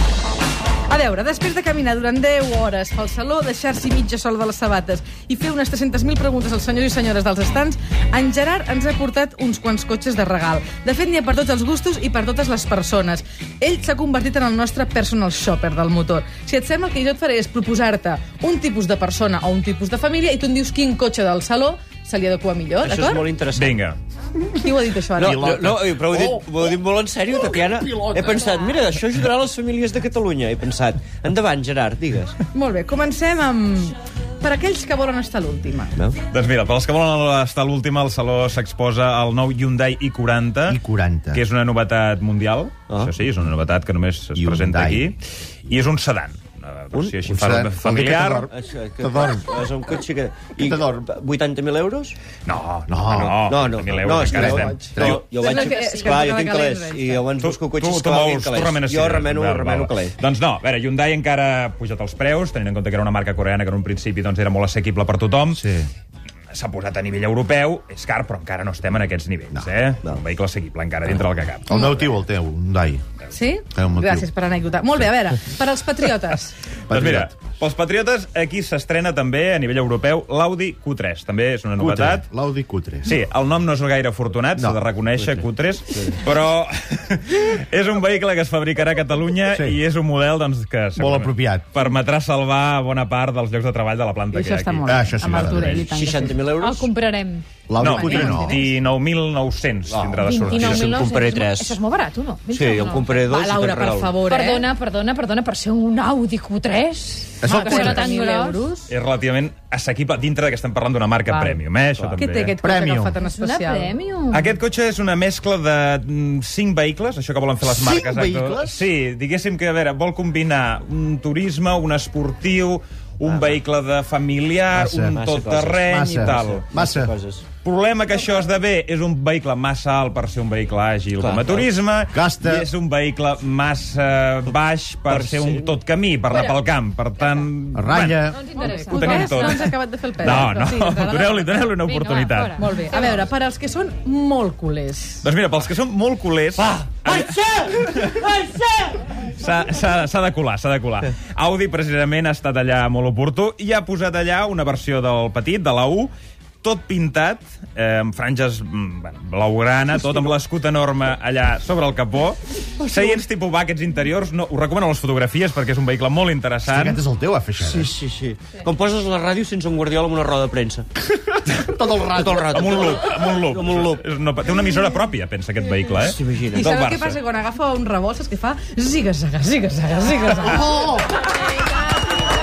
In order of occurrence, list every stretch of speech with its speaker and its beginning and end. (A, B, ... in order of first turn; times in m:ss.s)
0:00.9-0:23.2 A
0:22.8-0:23.8 B
0:23.5-0:24.0 C
0:24.6-0:25.7 A
0:25.2-0:26.6 D
0:25.2-0:32.4 B
0:27.3-0:28.4 D
0:32.5-0:36.0 A
0:36.3-0:40.8 C
0:40.7-0:41.4 D
0:41.3-0:48.5 C
0:44.4-0:45.1 D
0:47.3-0:49.5 D
0:48.5-0:52.2 B
0:50.6-0:51.1 D
0:52.4-0:55.2 C
0:52.9-0:53.4 D
0:53.4-1:00.2 B
0:54.2-0:55.3 D
0:54.4-0:57.2 A
0:55.4-0:56.1 E
0:57.4-1:05.6 C
1:05.5-1:05.9 D
1:06.5-1:12.0 C
1:11.7-1:13.0 D
1:13.3-1:16.6 A
1:13.7-1:14.3 D
1:16.9-1:17.3 D
1:16.9-1:22.3 C
1:21.8-1:23.1 D
1:23.0-1:35.9 C
1:24.6-1:24.8 D
1:29.5-1:29.8 D
1:31.0-1:31.7 D
1:34.3-1:36.4 A
1:34.8-1:35.8 D
1:35.9-1:36.9 B
1:36.5-1:37.4 E
1:37.7-1:38.6 D
1:37.8-1:41.0 C
1:37.8-1:38.8 A
1:39.9-1:41.8 B
1:40.0-1:40.6 D
1:40.2-1:48.6 E
1:42.5-1:44.2 B
1:43.3-1:44.6 A
1:47.4-1:48.0 D
1:47.4-1:48.9 A
1:48.9-1:52.5 C
1:51.3-1:51.6 E
1:52.1-1:53.9 A
1:52.6-1:53.1 D
1:53.2-1:54.5 E
1:54.3-2:06.6 C
1:57.6-1:58.9 D
2:03.2-2:03.6 B
2:04.7-2:05.2 D
2:05.1-2:07.4 B
2:05.8-2:07.1 D
2:07.6-2:18.3 C
2:11.2-2:11.7 B
2:12.1-2:12.7 D
2:15.1-2:15.7 B
2:17.7-2:18.4 D
2:18.3-2:19.5 E
2:18.5-2:21.8 A
2:18.8-2:22.6 C
2:21.8-2:23.3 E
2:22.6-2:25.3 A
2:25.2-2:28.2 C
2:26.6-2:29.1 B
2:29.2-2:47.0 C
2:42.8-2:43.2 B
2:46.6-2:47.9 D
2:47.6-2:50.9 B
2:51.4-2:52.9 D
2:52.1-2:54.0 B
2:52.5-2:57.2 C
2:55.9-2:56.7 B
2:56.5-3:00.9 A
3:00.4-3:01.2 D